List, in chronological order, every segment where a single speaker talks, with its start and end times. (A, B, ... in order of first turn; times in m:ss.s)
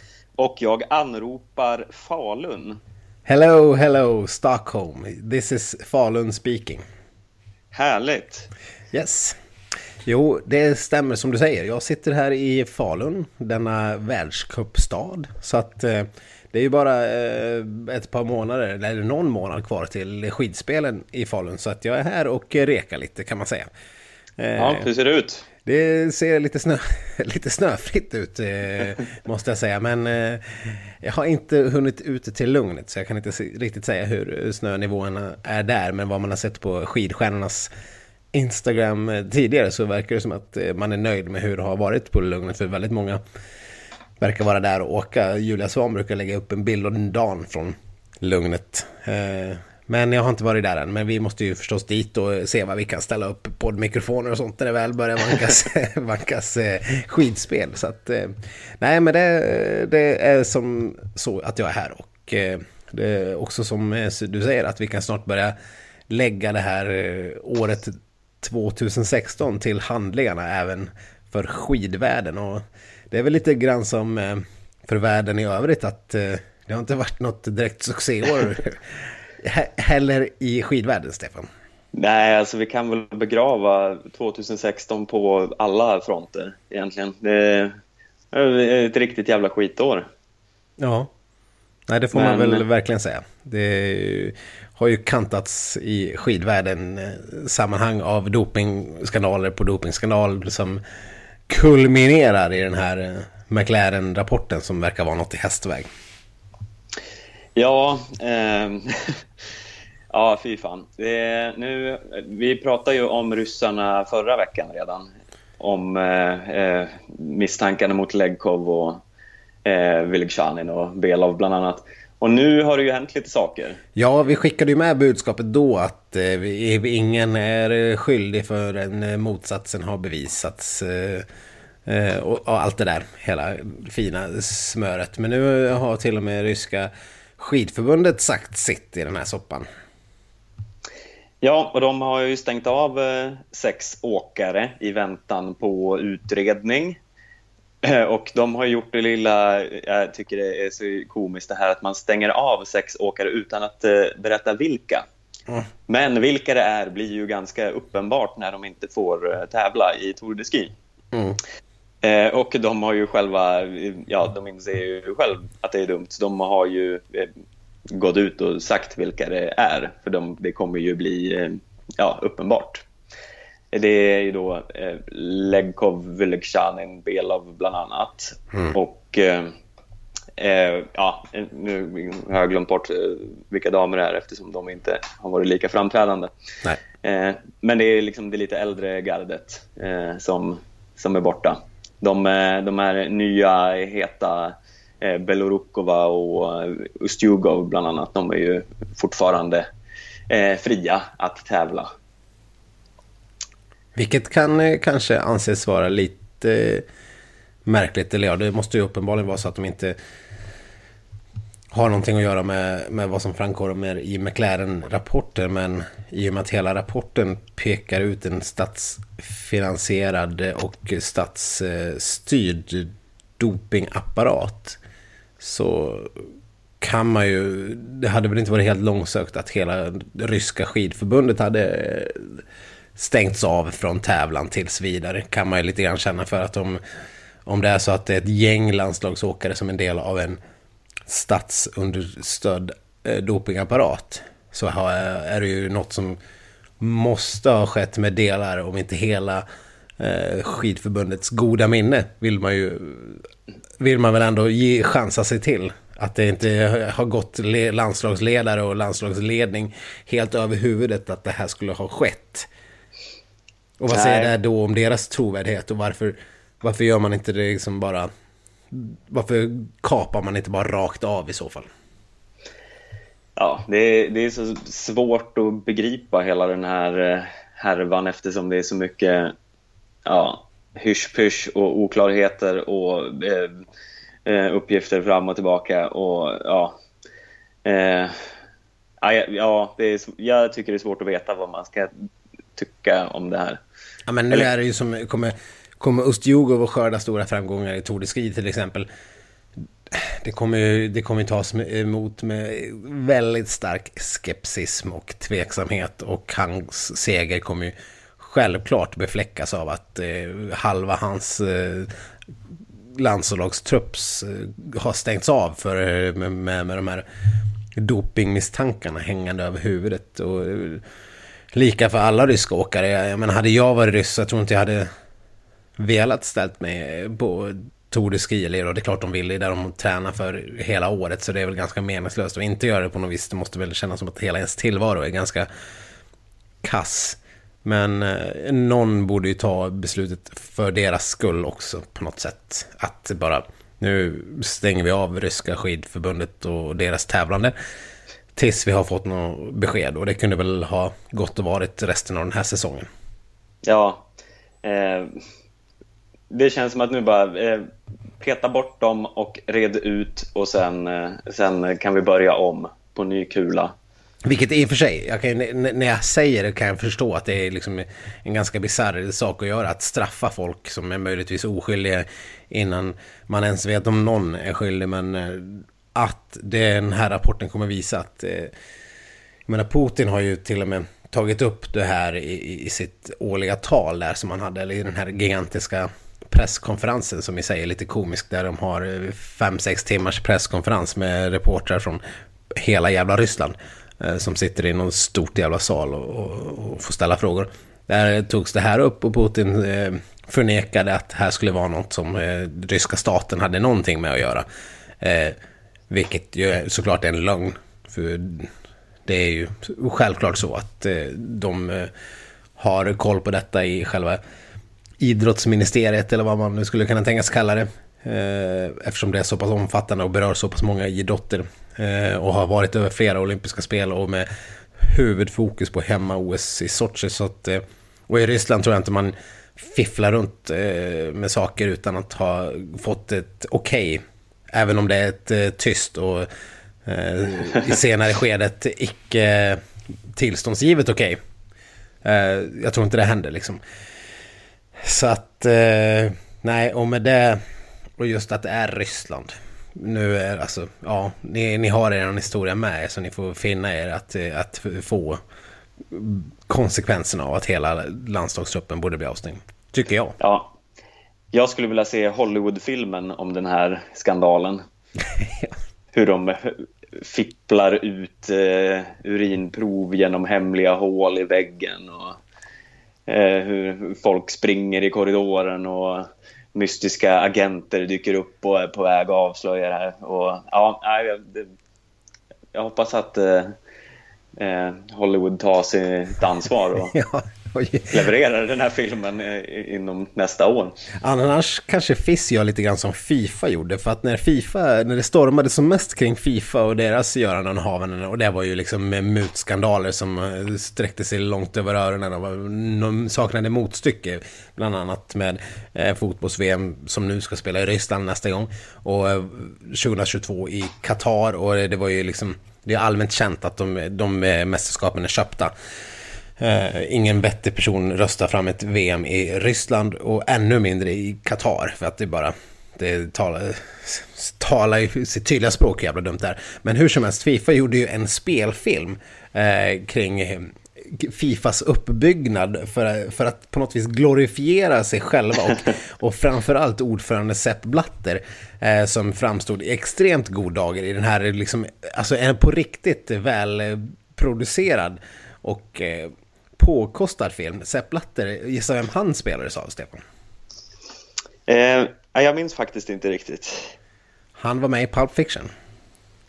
0:00.4-0:02.8 A
0:03.2-0:06.8 B
0:07.7-0:08.5 A
0:08.9-0:09.4 B
0:10.0-0:23.7 B
0:24.4-0:24.9 B
0:24.6-0:25.4 A
0:25.6-0:37.7 B
0:38.3-0:43.2 B
0:44.2-1:05.5 B
1:06.1-1:21.5 B
1:21.9-1:27.7 A
1:28.3-1:30.1 A
1:30.8-1:31.1 B
1:31.9-1:40.8 B
1:32.1-1:32.6 A
1:41.5-1:45.9 B
1:47.6-1:49.2 A
1:50.1-1:55.1 A
1:55.6-1:59.0 A
1:59.6-2:03.8 A
2:04.0-2:11.2 B
2:11.8-2:19.6 B
2:21.4-2:27.0 A
2:27.8-2:35.0 A
2:35.9-2:40.7 A
2:41.1-2:41.4 B
2:42.0-2:47.3 A
2:47.9-2:52.8 A
2:53.7-2:59.5 A
3:00.4-3:06.3 A
3:07.0-3:19.6 A
3:20.3-3:21.9 A
3:24.0-3:26.8 B
3:27.6-3:29.9 B
3:31.7-3:44.8 B
3:45.4-3:46.2 B
3:46.8-3:52.4 B
3:53.0-3:56.8 B
3:57.4-4:00.4 B
4:01.1-4:06.2 B
4:06.8-4:09.4 B
4:10.0-4:13.3 B
4:13.8-4:22.5 B
4:23.8-4:28.1 B
4:23.9-4:24.3 A
4:28.7-4:31.7 B
4:33.4-4:39.3 A
4:40.0-4:43.6 A
4:44.2-4:46.8 A
4:47.6-4:48.1 A
4:49.0-4:51.9 A
4:52.6-4:53.6 A
4:54.1-4:58.9 B
4:59.9-5:11.9 B
5:12.9-5:17.0 B
5:17.8-5:20.8 B
5:21.5-5:24.9 B
5:25.8-5:35.5 B
5:36.6-5:47.5 B
5:48.4-5:52.9 B
5:53.6-5:54.1 A
5:54.6-5:55.2 A
5:56.3-6:03.7 A
6:04.2-6:18.5 B
6:19.5-6:32.0 B
6:32.5-6:44.4 B
6:45.0-6:45.4 B
6:45.9-6:48.5 B
6:49.0-6:51.9 B
6:52.6-6:54.2 B
6:55.0-7:16.3 B
7:16.8-7:21.2 B
7:22.0-7:23.6 B
7:24.8-7:27.4 B
7:28.0-7:35.2 B
7:35.9-7:40.2 B
7:40.2-7:40.5 A
7:41.3-7:44.6 A
7:45.0-7:45.5 B
7:45.9-7:52.2 A
7:53.1-8:01.5 A
8:02.5-8:03.5 A
8:04.4-8:07.0 A
8:06.9-8:08.1 B
8:07.9-8:10.8 A
8:11.0-8:35.5 B
8:36.4-9:10.0 B
9:11.5-9:13.7 A
9:14.4-9:15.5 B